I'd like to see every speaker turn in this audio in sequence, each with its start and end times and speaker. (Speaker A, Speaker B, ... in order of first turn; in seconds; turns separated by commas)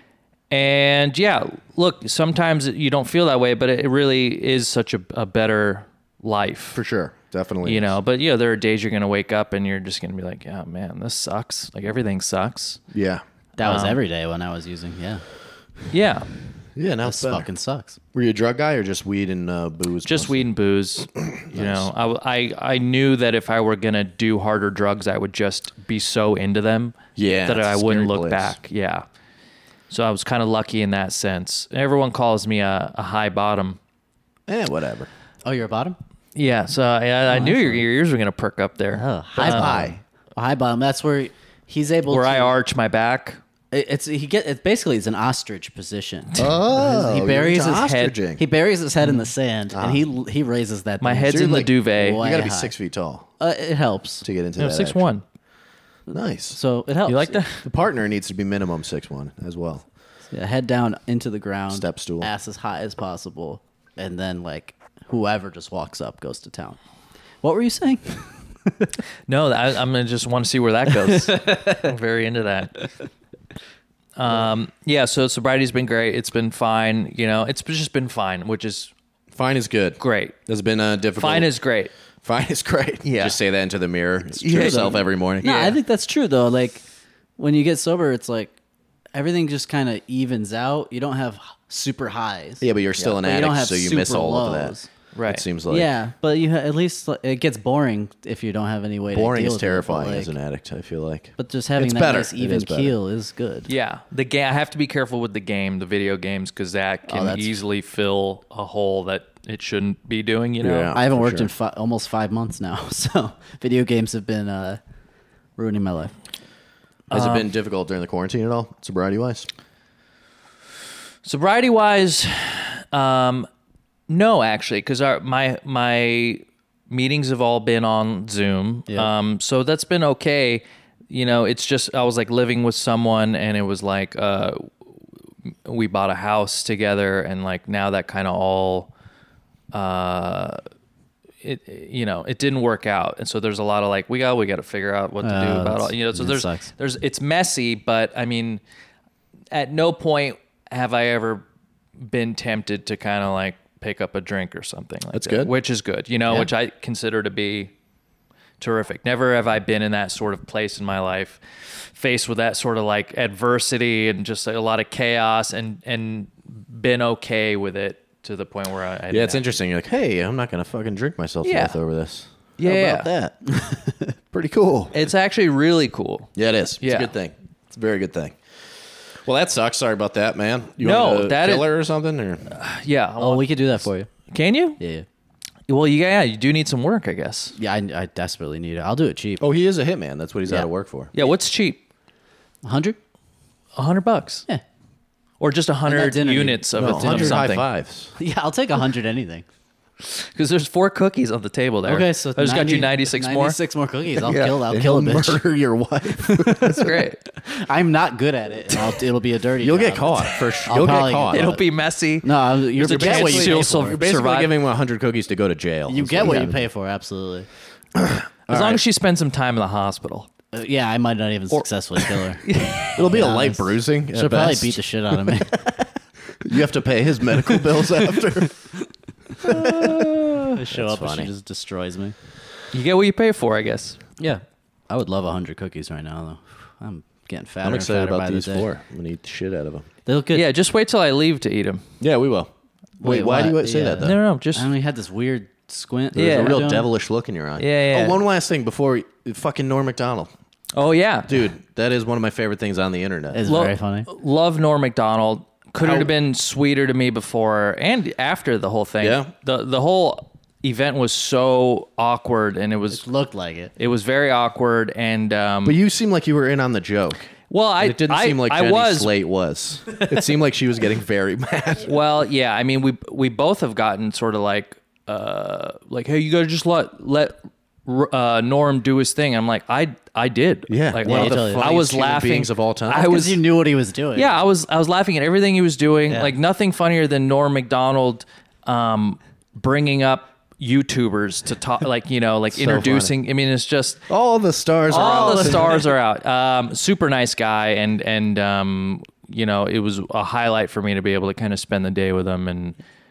Speaker A: 0.5-6.8, Speaker B: 6.7-7.9, Speaker A: 7.6-12.8, Speaker B: 12.9-13.2, Speaker C: 13.6-15.2, Speaker A: 13.6-14.0, Speaker A: 15.9-16.3, Speaker B: 16.8-17.5, Speaker C: 17.0-18.0, Speaker B: 18.1-20.5, Speaker A: 20.0-29.1, Speaker B: 21.3-21.9, Speaker B: 27.1-28.6, Speaker A: 29.9-33.8, Speaker B: 34.5-35.1, Speaker C: 35.4-36.0, Speaker A: 36.3-39.9, Speaker C: 37.3-37.8, Speaker C: 38.9-42.5, Speaker B: 39.4-40.0, Speaker A: 42.1-43.4, Speaker C: 43.7-52.7, Speaker B: 46.4-48.4, Speaker A: 47.6-48.1, Speaker B: 49.7-50.0, Speaker A: 51.0-52.2, Speaker B: 51.3-53.3, Speaker C: 53.4-54.2, Speaker B: 54.2-55.1, Speaker A: 54.6-55.2, Speaker B: 56.1-56.6, Speaker C: 56.5-57.4, Speaker A: 57.0-57.6, Speaker B: 57.6-59.8, Speaker C: 60.3-66.8, Speaker B: 61.7-62.3, Speaker C: 67.4-68.9, Speaker A: 69.3-72.9, Speaker C: 71.2-71.9, Speaker A: 74.2-78.9, Speaker B: 79.3-81.5, Speaker A: 80.0-80.4, Speaker A: 81.2-81.9, Speaker B: 82.2-85.5, Speaker A: 83.0-83.4, Speaker A: 84.4-85.8, Speaker C: 85.4-86.8, Speaker C: 87.4-88.5, Speaker C: 89.1-92.7, Speaker B: 92.6-94.7, Speaker C: 93.2-94.9, Speaker A: 95.1-95.4, Speaker B: 95.3-95.9, Speaker C: 95.7-100.3, Speaker B: 99.1-102.9, Speaker C: 101.4-103.7, Speaker A: 103.7-111.0, Speaker C: 107.1-107.5, Speaker B: 110.6-111.5, Speaker C: 110.9-114.8, Speaker C: 115.5-116.1, Speaker A: 117.1-117.5, Speaker B: 117.1-119.5, Speaker A: 121.2-123.5, Speaker A: 124.1-134.7, Speaker A: 135.7-138.9, Speaker A: 139.7-140.6, Speaker A: 141.4-148.6, Speaker C: 145.2-146.7, Speaker A: 149.5-151.4, Speaker A: 152.0-157.7, Speaker B: 155.1-155.5, Speaker A: 158.6-169.4, Speaker B: 169.1-173.4, Speaker A: 171.4-171.8, Speaker A: 172.6-173.1, Speaker C: 173.5-174.1, Speaker B: 174.3-175.0, Speaker A: 174.9-176.3, Speaker B: 176.3-182.4, Speaker A: 176.8-177.1, Speaker A: 180.8-181.7, Speaker A: 182.5-184.8, Speaker C: 183.2-184.1, Speaker C: 184.8-185.1, Speaker A: 185.7-187.6, Speaker C: 187.6-189.4, Speaker B: 189.4-191.1, Speaker A: 191.1-191.8, Speaker C: 192.6-193.0, Speaker A: 193.8-194.4, Speaker A: 195.4-197.6, Speaker C: 195.9-197.5, Speaker B: 196.7-198.1, Speaker C: 198.2-199.4, Speaker A: 200.0-203.6, Speaker C: 201.8-205.4, Speaker B: 204.2-207.0, Speaker A: 206.6-207.2, Speaker C: 207.4-211.6, Speaker B: 209.6-211.6, Speaker A: 211.3-214.5, Speaker C: 212.2-214.0, Speaker B: 212.8-216.7, Speaker C: 215.9-217.5, Speaker B: 217.9-218.8, Speaker A: 218.5-220.3, Speaker C: 220.5-222.4, Speaker A: 221.5-223.0, Speaker B: 222.9-225.4, Speaker C: 223.0-225.8, Speaker B: 226.4-228.6, Speaker B: 229.4-231.3, Speaker A: 229.4-230.2, Speaker C: 230.5-232.1, Speaker A: 232.7-234.0, Speaker C: 234.2-238.7, Speaker B: 237.6-239.9, Speaker C: 240.1-240.4, Speaker A: 240.3-241.8, Speaker B: 242.0-244.2, Speaker C: 243.0-246.8, Speaker A: 244.0-244.7, Speaker B: 246.1-250.3, Speaker A: 246.2-246.6, Speaker A: 247.6-248.2, Speaker A: 250.7-251.4, Speaker B: 251.2-253.4, Speaker C: 253.3-254.1, Speaker A: 253.4-263.0, Speaker B: 255.8-256.1, Speaker B: 259.0-259.3, Speaker C: 262.9-263.7, Speaker A: 263.8-265.8, Speaker B: 265.6-271.9, Speaker A: 267.5-269.1, Speaker A: 271.8-283.4, Speaker B: 280.7-283.1, Speaker C: 281.0-281.7, Speaker C: 283.0-284.3, Speaker A: 284.1-294.0, Speaker B: 292.5-293.1, Speaker B: 294.1-295.8, Speaker C: 294.9-295.8, Speaker A: 294.9-302.8